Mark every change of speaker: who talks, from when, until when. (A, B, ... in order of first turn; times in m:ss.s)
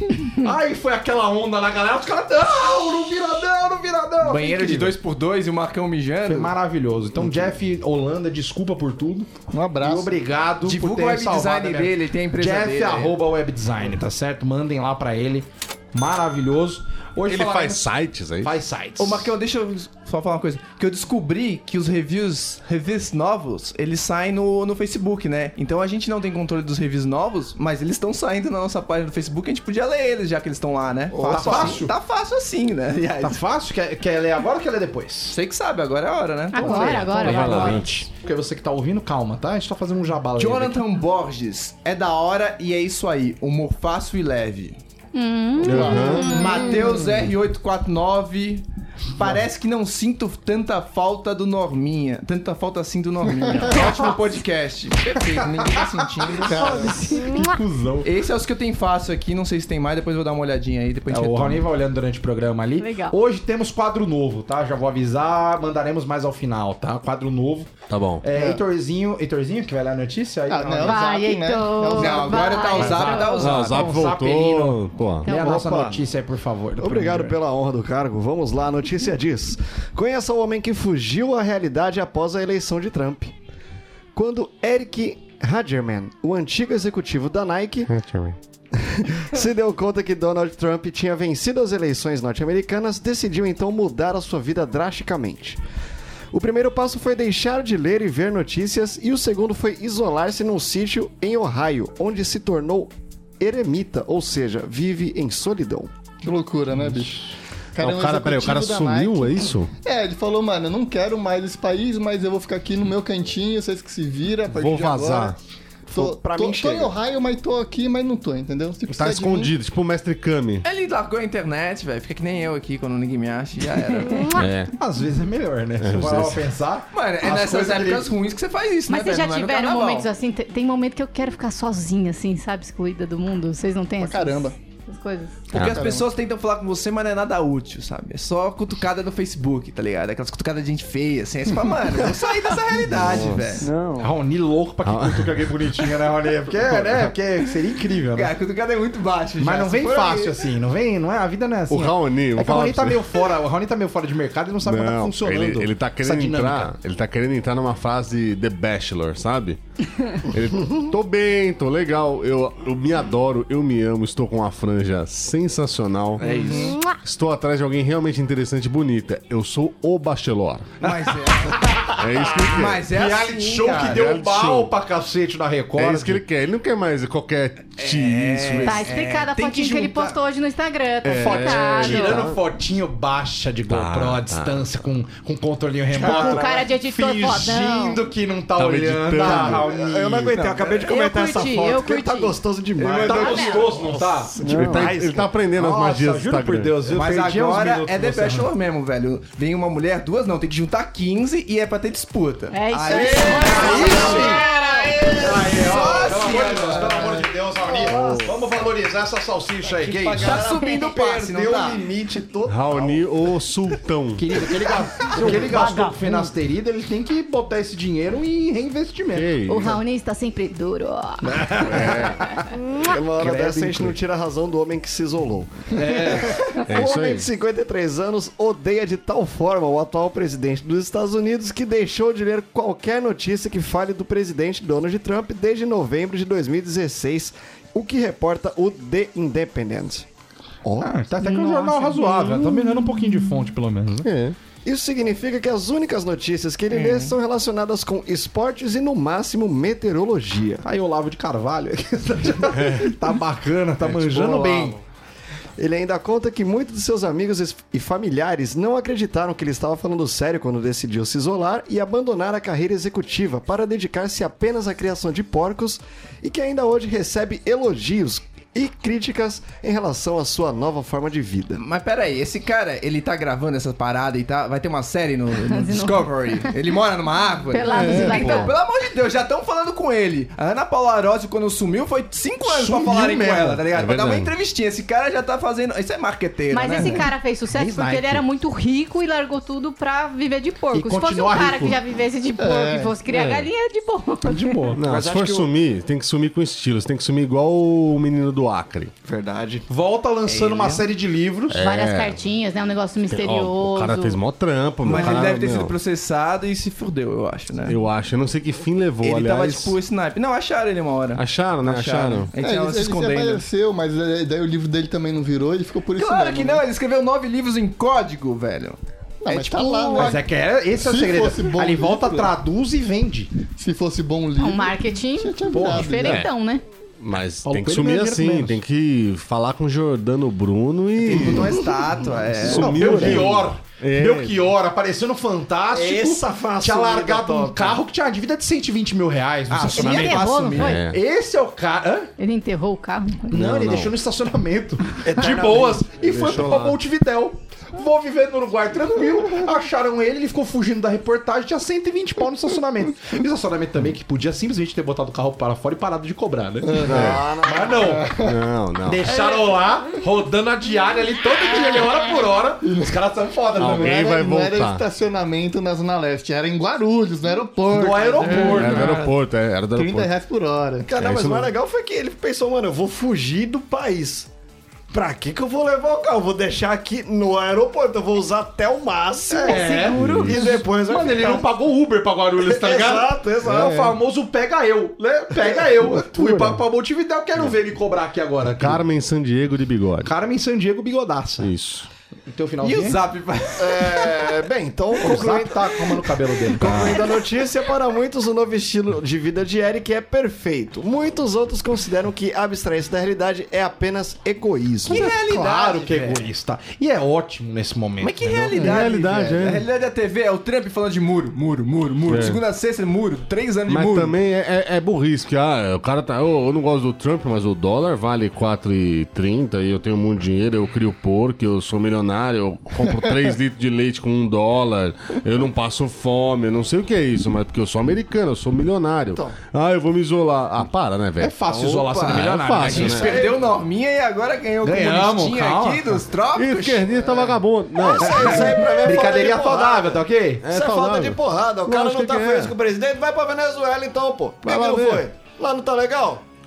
0:00.2-0:05.0 A
0:04.2-0:06.5 B
0:06.2-0:19.3 A
0:09.5-0:10.2 C
0:10.6-0:13.1 B
0:17.2-0:18.5 D
0:19.0-0:33.4 B
0:31.1-0:31.8 E
0:31.2-0:31.9 A
0:33.2-0:35.4 A
0:35.3-0:37.1 B
0:36.5-0:37.8 F
0:36.5-0:40.8 A
0:37.1-0:37.9 D
0:40.4-0:44.8 B
0:45.1-0:46.9 F
0:45.6-0:46.3 D
0:45.6-0:47.1 C
0:46.2-0:56.9 B
0:53.3-0:53.7 C
0:53.7-0:54.1 A
0:55.2-0:58.0 A
0:56.4-0:57.6 C
0:57.2-0:57.6 F
0:58.0-1:01.7 B
1:01.1-1:07.7 A
1:02.8-1:03.2 F
1:07.9-1:08.2 D
1:08.2-1:11.0 A
1:08.3-1:08.6 C
1:10.5-1:12.7 C
1:10.8-1:13.5 F
1:11.9-1:14.0 B
1:12.1-1:17.4 A
1:13.4-1:15.9 D
1:15.2-1:15.6 F
1:15.3-1:16.0 E
1:16.8-1:23.3 E
1:24.1-1:27.9 E
1:27.9-1:28.4 D
1:28.8-1:35.6 E
1:36.3-1:45.9 E
1:46.2-1:55.3 C
1:47.8-1:49.7 D
1:54.5-1:55.4 D
1:55.9-1:59.5 C
1:55.9-1:57.0 E
1:58.9-2:00.6 D
2:00.6-2:04.3 B
2:03.9-2:04.4 F
2:04.3-2:04.7 D
2:04.8-2:08.1 A
2:05.8-2:06.4 D
2:06.9-2:10.1 B
2:08.9-2:15.3 F
2:14.0-2:14.6 C
2:15.5-2:23.7 B
2:15.5-2:15.8 D
2:15.6-2:16.1 C
2:22.9-2:23.5 D
2:23.6-2:24.1 C
2:24.0-2:28.3 A
2:24.8-2:25.6 D
2:28.1-2:30.3 B
2:29.4-2:36.7 A
2:31.7-2:33.2 D
2:34.6-2:39.6 D
2:40.2-2:50.7 D
2:46.2-2:46.8 B
2:46.3-2:46.6 A
2:50.8-2:51.7 B
2:50.8-2:52.2 A
2:52.0-2:52.9 D
2:52.4-2:54.1 B
2:52.8-2:56.2 A
2:53.8-2:54.7 D
2:55.8-2:58.9 D
2:57.8-3:00.2 B
2:58.6-3:02.2 F
3:01.0-3:02.4 D
3:01.2-3:10.3 A
3:03.7-3:04.8 D
3:05.9-3:06.4 B
3:06.0-3:08.0 F
3:08.6-3:09.7 D
3:09.2-3:15.3 E
3:10.3-3:11.0 B
3:10.8-3:12.4 F
3:12.8-3:13.8 B
3:13.0-3:14.4 A
3:13.1-3:13.6 F
3:14.4-3:16.8 D
3:15.5-3:18.5 A
3:16.9-3:27.2 B
3:22.5-3:24.9 F
3:22.9-3:25.3 E
3:22.9-3:30.4 A
3:26.0-3:28.4 E
3:29.6-3:33.1 E
3:30.2-3:31.8 B
3:30.4-3:30.9 F
3:32.4-3:34.4 D
3:34.2-3:39.8 A
3:35.0-3:35.9 E
3:35.7-3:36.1 C
3:39.1-3:39.8 D
3:39.4-3:41.6 F
3:41.2-3:42.5 A
3:41.6-3:42.2 D
3:42.7-4:00.1 E
3:43.2-3:43.9 A
3:43.2-3:43.9 D
3:45.7-3:46.6 A
3:46.7-3:47.3 D
4:00.6-4:00.9 E
4:00.8-4:04.1 A
4:01.2-4:02.6 F
4:04.0-4:04.4 D
4:04.6-4:10.6 E
4:06.7-4:07.2 B
4:10.6-4:14.8 A
4:12.5-4:13.0 D
4:13.8-4:14.8 D
4:15.6-4:31.6 E
4:31.6-4:47.1 B
4:35.5-4:36.6 F
4:37.5-4:38.5 F
4:37.7-4:38.0 C
4:37.7-4:38.5 D
4:42.5-4:43.5 A
4:43.3-4:44.3 D
4:46.5-4:54.7 F
4:46.8-4:48.2 A
4:50.7-4:51.8 A
4:52.4-4:53.0 C
4:54.2-4:54.8 A
4:54.7-4:58.9 D
4:54.8-4:55.5 E
4:59.0-4:59.7 E
4:59.7-5:01.6 A
5:00.3-5:00.9 B
5:01.5-5:02.2 D
5:01.6-5:04.2 F
5:03.1-5:05.8 D
5:04.8-5:07.8 B
5:07.6-5:09.8 D
5:09.0-5:13.4 B
5:11.1-5:12.3 D
5:12.4-5:16.6 C
5:16.0-5:20.1 B
5:19.2-5:22.3 C
5:20.0-5:23.3 A
5:23.4-5:26.2 C
5:24.4-5:26.6 F
5:25.5-5:25.9 A
5:26.0-5:26.3 D
5:27.0-5:31.6 D
5:27.4-5:28.6 A
5:31.0-5:33.3 B
5:32.4-5:34.4 D
5:32.5-5:42.1 A
5:35.7-5:37.8 E
5:39.5-5:40.8 B
5:39.7-5:40.8 F
5:40.6-5:41.0 D
5:42.2-5:43.3 F
5:43.3-5:58.1 A
5:43.3-5:43.9 D
5:45.0-5:46.4 E
5:46.1-5:46.8 D
5:56.6-5:57.1 C
5:56.8-5:57.3 D
5:56.8-5:57.9 E
5:57.8-5:58.3 C
5:58.2-5:59.2 D
5:58.8-6:04.2 A
6:02.6-6:02.9 C
6:03.6-6:04.8 D
6:03.6-6:09.1 C
6:07.7-6:09.0 A
6:08.2-6:10.1 D
6:09.7-6:10.8 C
6:10.8-6:14.3 E
6:10.9-6:11.5 D
6:14.9-6:21.5 E
6:19.3-6:20.3 F
6:19.4-6:28.8 A
6:19.9-6:20.5 D
6:22.4-6:23.9 E
6:23.4-6:23.9 D
6:25.8-6:26.6 D
6:28.5-6:30.1 D
6:30.0-6:31.5 A
6:31.4-6:31.9 D
6:32.3-6:33.0 A
6:32.6-6:34.3 B
6:33.6-6:45.1 E
6:35.0-6:36.9 A
6:36.6-6:37.0 D
6:44.9-6:46.2 B
6:44.9-6:48.6 A
6:48.0-6:54.2 B
6:48.5-6:49.6 D
6:48.6-6:48.8 C
6:52.1-6:52.4 D
6:53.7-7:11.3 D
7:11.2-7:13.4 A
7:11.5-7:16.9 B
7:12.0-7:13.2 D
7:14.6-7:16.0 A
7:16.3-7:18.6 D
7:17.8-7:26.2 E
7:18.0-7:20.4 A
7:20.4-7:22.5 D
7:24.4-7:25.0 D